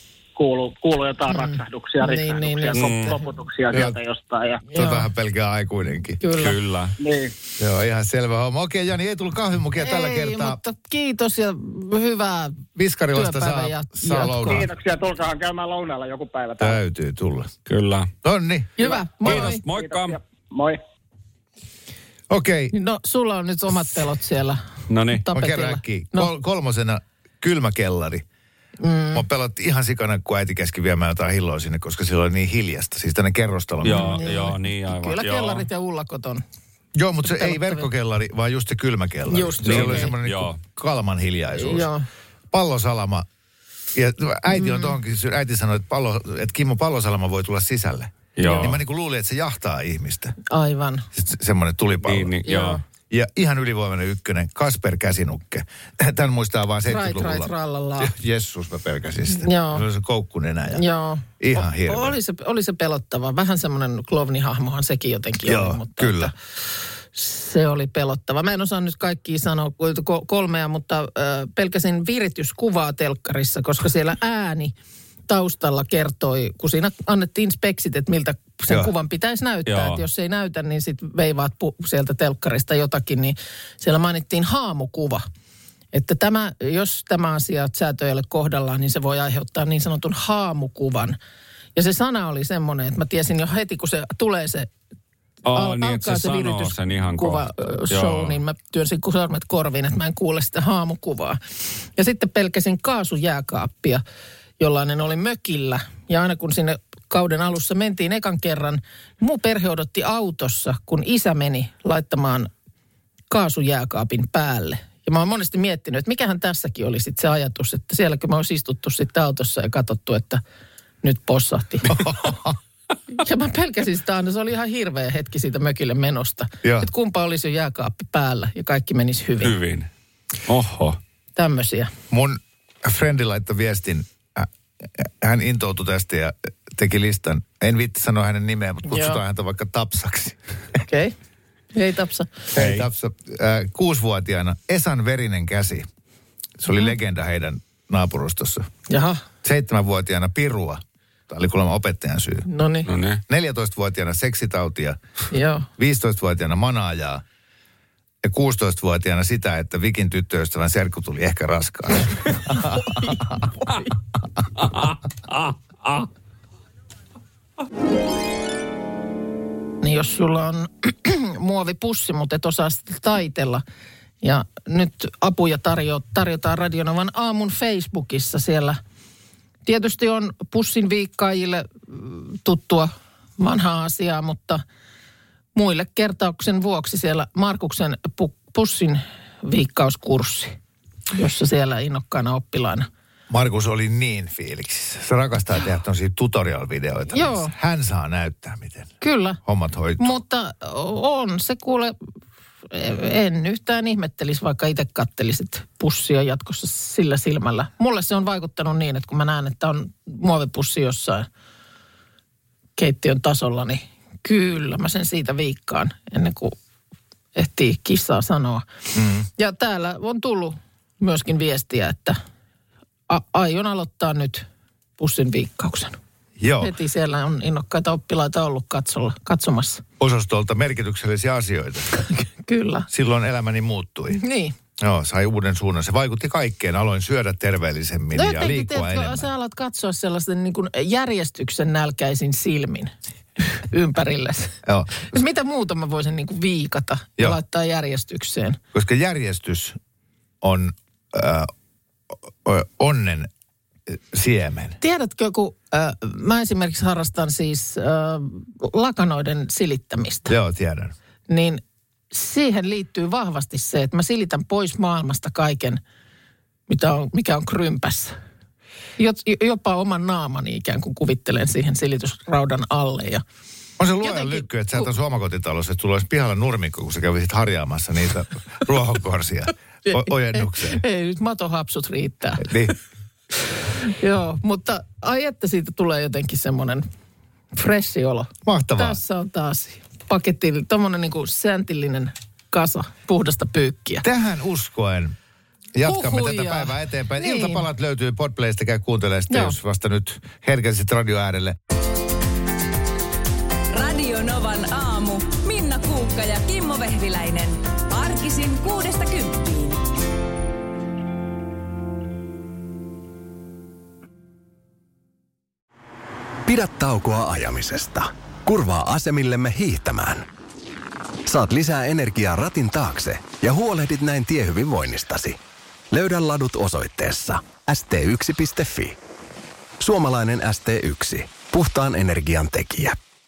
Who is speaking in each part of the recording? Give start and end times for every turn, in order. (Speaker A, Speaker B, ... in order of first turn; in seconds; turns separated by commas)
Speaker A: 0.3-4.6, Speaker B: 1.3-3.2, Speaker C: 2.7-3.1, Speaker D: 3.7-4.0, Speaker B: 4.7-5.1, Speaker D: 4.7-6.2, Speaker B: 6.2-6.6, Speaker C: 6.4-6.9, Speaker A: 7.0-7.3, Speaker D: 7.6-10.6, Speaker B: 9.8-14.7, Speaker D: 12.8-14.7, Speaker A: 14.4-16.8, Speaker D: 16.6-17.5, Speaker C: 17.7-18.1, Speaker D: 18.2-18.7, Speaker B: 18.8-19.6, Speaker A: 18.8-20.8, Speaker C: 19.2-20.2, Speaker D: 22.3-22.7, Speaker B: 22.7-26.3, Speaker C: 24.9-25.2, Speaker D: 25.3-28.2, Speaker B: 28.8-29.2, Speaker D: 29.1-34.5, Speaker C: 33.8-35.7, Speaker B: 33.9-36.4, Speaker D: 37.0-41.9, Speaker B: 37.2-37.9, Speaker B: 39.3-40.1, Speaker C: 39.6-40.6, Speaker B: 41.5-42.0, Speaker D: 42.5-43.2, Speaker D: 43.9-50.4, Speaker B: 44.5-45.0, Speaker C: 48.4-48.8, Speaker B: 48.4-48.8, Speaker B: 50.5-51.1, Speaker D: 51.1-52.4, Speaker C: 52.0-52.8, Speaker B: 52.4-52.8, Speaker D: 53.1-60.8, Speaker B: 56.9-58.1, Speaker B: 59.3-59.8, Speaker B: 60.7-66.3, Speaker D: 61.4-62.2, Speaker D: 65.4-66.3, Speaker B: 67.1-74.7, Speaker B: 75.3-85.2, Speaker C: 79.7-80.0, Speaker B: 85.9-91.2, Speaker B: 91.8-94.7, Speaker C: 95.5-98.4, Speaker B: 95.5-101.4, Speaker B: 102.0-104.0, Speaker B: 104.6-112.5, Speaker B: 113.3-120.4, Speaker B: 121.0-122.3, Speaker D: 121.9-122.6, Speaker B: 123.1-129.6, Speaker D: 126.6-126.9, Speaker C: 129.4-129.9, Speaker C: 130.5-131.0, Speaker B: 131.3-131.9, Speaker D: 132.1-140.4, Speaker B: 138.8-139.2, Speaker B: 140.8-141.1, Speaker B: 141.7-142.5, Speaker D: 142.5-145.9, Speaker C: 142.6-142.9, Speaker D: 146.6-148.7, Speaker B: 148.9-149.2, Speaker D: 149.4-152.4, Speaker B: 152.4-152.9, Speaker C: 152.8-153.2, Speaker D: 153.3-155.0, Speaker B: 155.3-155.7, Speaker D: 155.8-157.2, Speaker D: 158.2-163.2, Speaker C: 164.6-166.1, Speaker B: 169.8-173.6, Speaker B: 174.2-178.8, Speaker B: 179.7-184.6, Speaker B: 185.6-190.6, Speaker B: 191.1-192.9, Speaker D: 193.3-198.9, Speaker B: 197.1-197.5, Speaker B: 199.0-199.4, Speaker D: 199.4-200.2, Speaker B: 200.0-202.0, Speaker B: 202.7-211.3, Speaker B: 212.8-216.6, Speaker B: 217.3-218.7, Speaker D: 218.9-219.3, Speaker B: 219.3-222.2, Speaker B: 223.1-224.4, Speaker B: 225.0-226.0, Speaker D: 226.4-226.7, Speaker B: 226.6-229.8, Speaker D: 230.0-232.0, Speaker B: 232.1-232.9, Speaker D: 232.9-234.2, Speaker B: 234.1-234.5, Speaker D: 234.8-239.3, Speaker B: 238.1-248.6, Speaker D: 244.6-245.1, Speaker D: 248.7-249.8, Speaker D: 250.4-251.5, Speaker D: 252.4-253.3, Speaker D: 253.9-254.8, Speaker B: 254.8-260.3, Speaker D: 260.3-260.9, Speaker B: 261.3-265.8, Speaker B: 266.7-268.1, Speaker B: 269.0-273.2, Speaker D: 273.8-280.8, Speaker B: 274.0-274.9, Speaker B: 279.8-282.6, Speaker D: 282.4-282.7, Speaker B: 283.4-286.8, Speaker B: 287.5-294.0, Speaker D: 288.4-289.0, Speaker D: 294.0-295.1, Speaker D: 295.7-301.6, Speaker B: 295.8-297.6, Speaker B: 299.3-299.5, Speaker E: 303.7-309.8, Speaker F: 316.4-320.3, Speaker F: 321.2-325.4, Speaker F: 325.9-329.0, Speaker F: 329.8-333.0